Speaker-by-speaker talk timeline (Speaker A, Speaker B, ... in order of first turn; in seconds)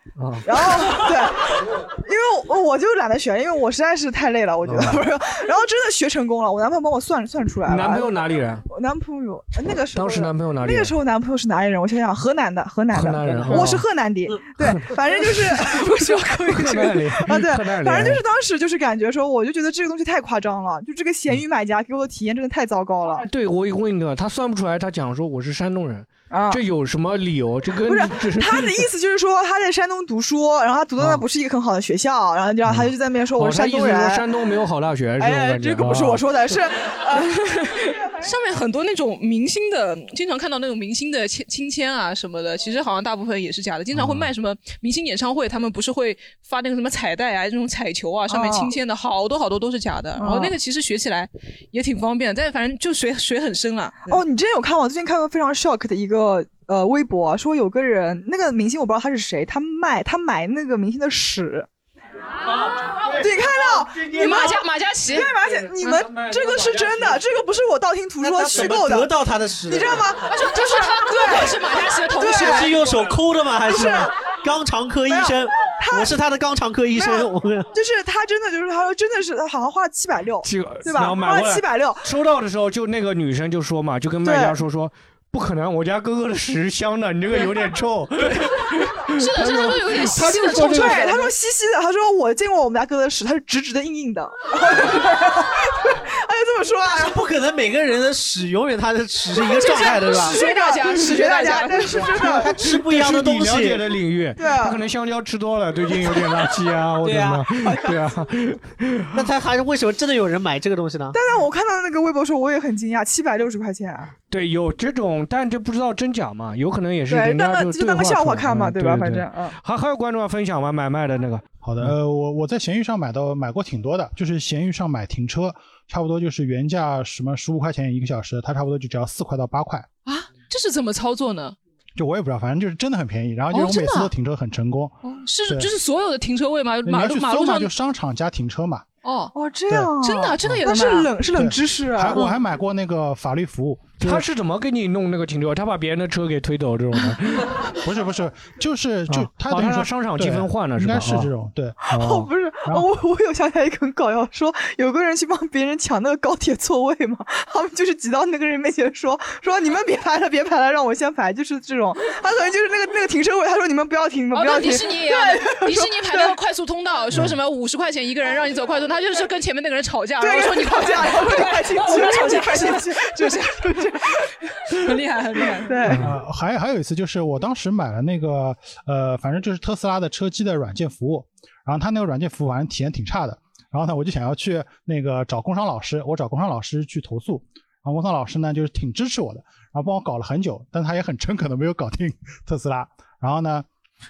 Speaker A: 0.2-0.9, 4.6-5.0, 7.7-8.7, 9.9-10.9, 12.9-13.9, 14.6-14.9, 16.4-18.2, 23.1-28.9, 31.0-31.2, 32.6-36.2, 44.0-44.3, 66.2-67.0, 80.4-91.2, 102.5-109.2, 114.3-122.0, 144.0-147.6, 149.1-151.3, 151.9-152.3
Speaker B: 0.4-8.1, 8.7-23.2, 26.3-26.6, 27.9-34.2, 35.2-37.7, 48.3-48.7, 50.2-50.5, 54.1-61.7, 63.0-69.1, 69.7-72.8, 73.7-74.1, 75.1-76.1, 77.0-82.0, 84.2-84.6, 90.1-97.2, 99.9-102.5, 104.4-104.8, 111.1-114.1, 117.1-119.5, 139.3-142.3, 151.8-166.4, 170.2-174.8, 175.6-176.1
Speaker C: 15.6-16.3, 37.8-54.2, 64.1-65.3, 70.3-72.7, 89.1-91.1, 99.5-102.2, 130.1-131.6, 133.5-134.1, 135.0-137.7, 139.0-139.3, 140.0-141.1, 164.3-175.8
Speaker D: 68.2-70.0, 72.4-77.7, 96.9-100.4, 102.3-103.8, 107.0-107.8, 109.1-111.2
Speaker E: 121.6-129.9, 132.0-135.7, 136.8-138.8, 139.7-140.6, 141.3-144.2, 147.8-151.8, 176.0-193.7